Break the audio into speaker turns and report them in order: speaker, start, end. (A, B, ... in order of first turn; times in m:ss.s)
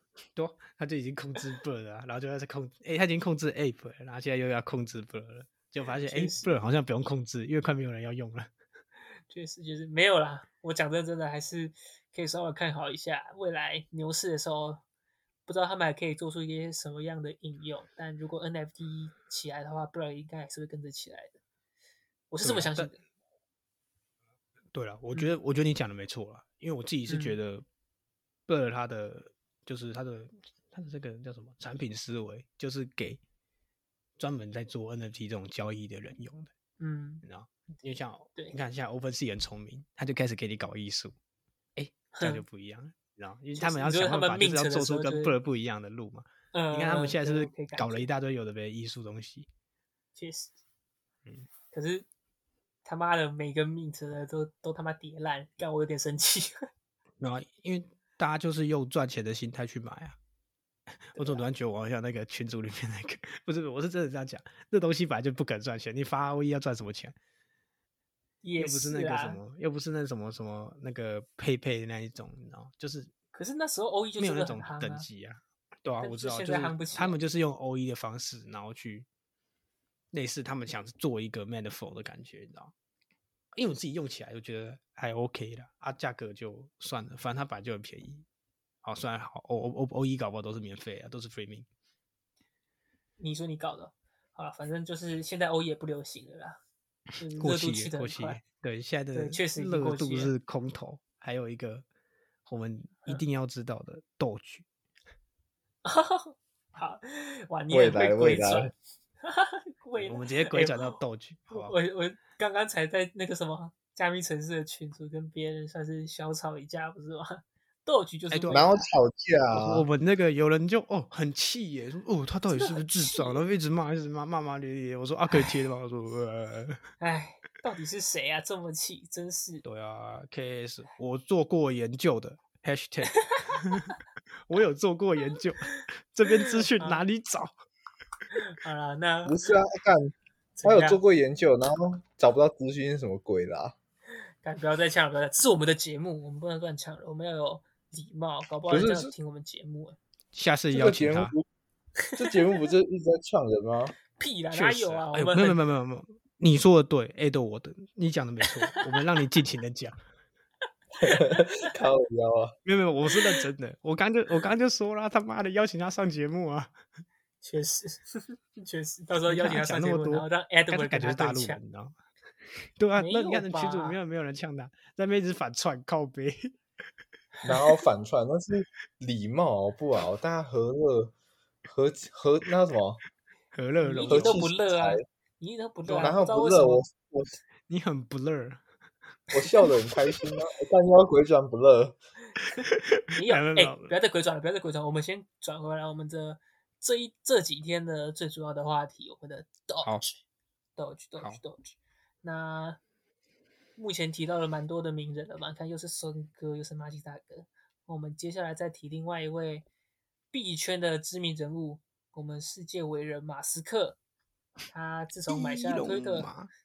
0:00.3-0:08.5 A
0:06.0-0:06.5 B
0:09.3-0:14.8 B
0:15.4-0:21.4 B
0:22.3-0:23.0 B
0:22.4-0:22.9 A
0:24.7-0:27.6 A
0:27.1-0:27.4 B
0:28.5-0:33.2 A
0:34.2-0:36.5 A
0:36.8-0:37.2 B
0:37.2-0:41.1 A
0:41.8-0:49.5 A
0:42.1-0:42.4 B
0:43.5-0:45.4 B
0:46.5-0:48.1 B
0:50.2-0:50.5 B
0:51.7-0:52.1 B
0:52.8-0:56.6 B
0:57.2-1:00.2 A
1:01.1-1:01.4 B
1:01.1-1:07.2 A
1:08.4-1:09.4 B
1:08.6-1:13.1 A
1:13.3-1:15.1 B
1:14.2-1:19.1 A
1:16.0-1:17.2 B
1:20.1-1:22.7 A
1:23.5-1:28.2 A
1:28.8-1:31.7 A
1:33.2-1:36.6 B
1:37.2-1:38.4 B
1:37.4-1:41.8 A
1:39.1-1:40.3 B
1:42.4-1:44.6 A
1:45.8-1:48.7 B
1:47.7-1:48.7 C
1:49.2-1:58.8 B
1:50.0-1:51.7 A
1:58.3-1:58.6 A
1:58.5-1:59.8 C
1:59.5-2:06.8 A
2:02.5-2:03.4 B
2:07.0-2:09.6 B
2:09.6-2:14.0 A
2:14.5-2:17.5 A
2:16.3-2:17.1 B
2:18.3-2:19.5 B
2:19.2-2:20.1 C
2:20.6-2:21.0 B
2:20.6-2:23.7 C
2:24.4-2:30.0 B
2:28.7-2:29.1 C
2:30.3-2:31.3 A
2:30.7-2:31.4 C
2:32.0-2:32.4 B
2:32.2-2:34.0 C
2:34.2-2:35.6 B
2:34.5-2:40.0 A
2:38.6-2:38.9 B
2:41.0-2:42.6 C
2:41.0-2:41.6 B
2:42.6-2:46.7 A
2:43.1-2:43.4 B
2:47.4-2:51.6 B
2:49.3-2:51.9 A
2:52.8-2:56.5 A
2:53.0-2:54.0 B
2:57.4-3:01.1 C
3:01.7-3:03.0 C
3:03.5-3:04.4 A
3:03.8-3:06.8 B
3:04.1-3:05.0 C
3:05.9-3:07.4 C
3:07.7-3:08.6 A
3:09.3-3:12.0 C
3:12.7-3:13.9 A
3:13.1-3:20.1 B
3:20.8-3:22.8 B
3:23.8-3:29.6 B
3:30.3-3:34.0 B
3:34.7-3:36.3 B
3:35.3-3:36.5 A